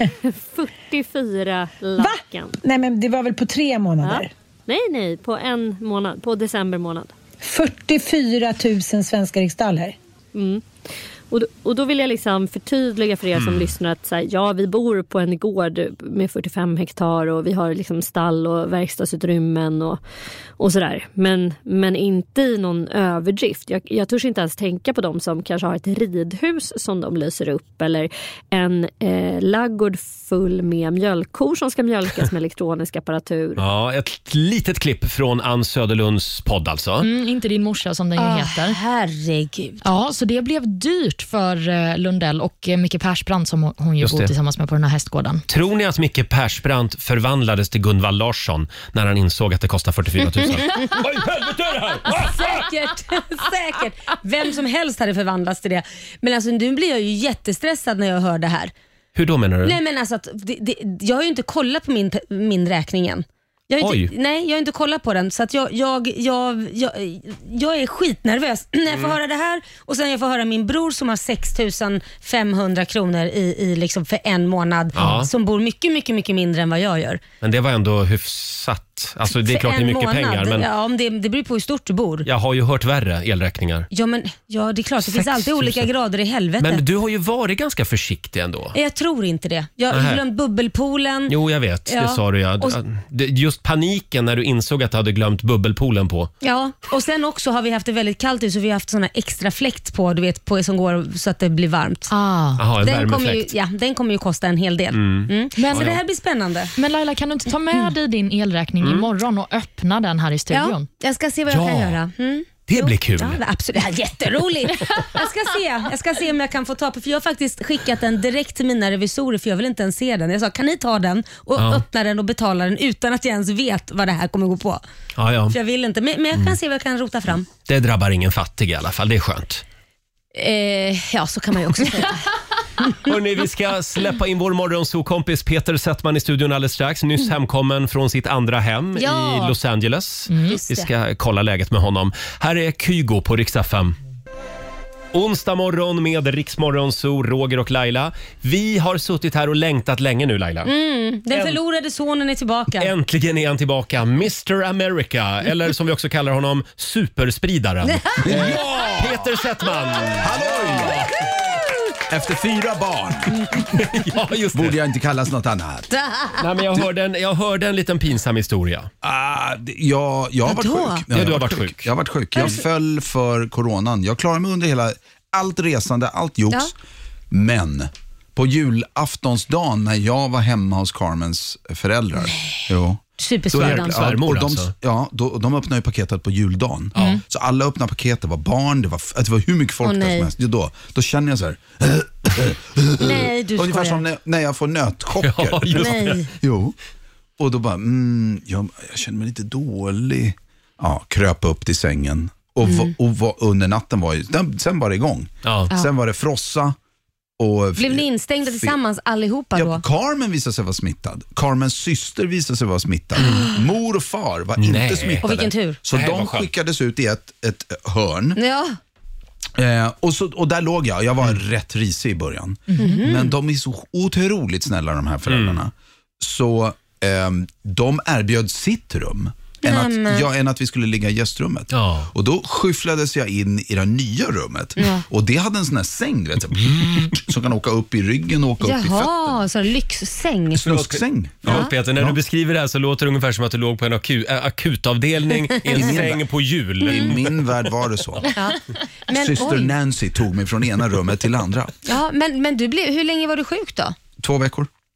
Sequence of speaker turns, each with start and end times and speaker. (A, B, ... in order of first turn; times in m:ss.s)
0:00.2-0:02.6 A
0:02.0-0:04.3 B
0:04.0-0:07.1 A
0:07.4-0:10.0 B
0:10.3-0:10.6 A
0:11.3-0:20.0 A
0:13.3-0:13.7 C
0:20.6-0:33.6 A
0:33.6-0:37.1 C
0:37.0-0:38.8 D
0:38.2-0:39.8 E
0:39.8-0:45.4 D
0:44.0-0:44.3 C
0:45.5-0:52.7 C
0:52.1-0:58.7 E
0:59.1-0:59.8 C
0:59.6-1:17.2 E
1:03.8-1:04.1 C
1:14.9-1:15.3 C
1:17.4-1:20.7 C
1:19.3-1:22.3 E
1:22.2-1:23.9 C
1:23.9-1:26.8 E
1:25.0-1:25.9 C
1:26.6-1:28.7 C
1:28.7-1:31.3 E
1:29.9-1:30.2 C
1:31.3-1:36.3 C
1:31.9-1:32.8 E
1:36.4-1:42.1 E
1:42.1-1:42.6 D
1:42.6-1:43.5 C
1:42.8-1:46.7 E
1:44.9-1:46.0 C
1:45.6-1:46.0 D
1:46.8-1:50.9 D
1:48.8-1:49.1 C
1:50.5-2:04.8 E
1:51.5-1:52.0 C
1:52.7-1:53.4 C
2:01.6-2:01.8 C
2:05.2-2:05.5 C
2:05.5-2:07.5 E
2:07.6-2:09.6 C
2:10.3-2:12.3 E
2:13.0-2:24.0 C
2:19.0-2:19.5 E
2:20.3-2:20.6 D
2:20.4-2:20.9 E
2:25.1-2:30.7 C
2:30.6-2:32.9 E
2:31.3-2:31.6 C
2:32.8-2:41.1 C
2:37.8-2:38.4 E
2:38.2-2:39.2 F
2:40.2-2:41.1 F
2:42.1-2:43.8 F
2:43.7-2:44.8 C
2:44.5-2:45.9 F
2:45.9-2:46.4 E
2:46.4-2:48.9 C
2:49.0-2:56.7 F
2:50.4-2:51.0 E
2:51.1-2:51.9 C
2:57.3-3:16.8 F
3:03.2-3:04.0 E
3:03.6-3:04.7 C
3:09.8-3:10.3 E
3:13.0-3:14.0 E
3:15.2-3:16.2 C
3:15.7-3:16.3 E
3:17.4-3:26.8 F
3:22.6-3:22.9 E
3:25.4-3:25.7 C
3:27.4-3:28.8 F
3:27.8-3:29.8 E
3:29.5-3:38.4 F
3:33.2-3:33.6 E
3:34.6-3:35.2 C
3:35.2-3:35.8 E
3:35.9-3:36.5 C
3:38.4-3:38.8 E
3:39.6-3:59.4 F
3:42.7-3:43.0 D
3:42.8-3:43.3 E
3:45.3-3:45.6 C
3:49.6-3:50.3 E
3:51.7-3:52.1 C
3:54.8-3:55.0 E
3:58.6-4:00.6 E
4:00.5-4:02.2 F
4:00.6-4:07.6 C
4:01.4-4:01.7 E
4:05.6-4:06.3 F
4:06.8-4:08.4 F
4:06.8-4:07.1 E
4:08.3-4:09.7 E
4:09.1-4:11.7 F
4:11.8-4:14.0 E
4:14.2-4:14.7 F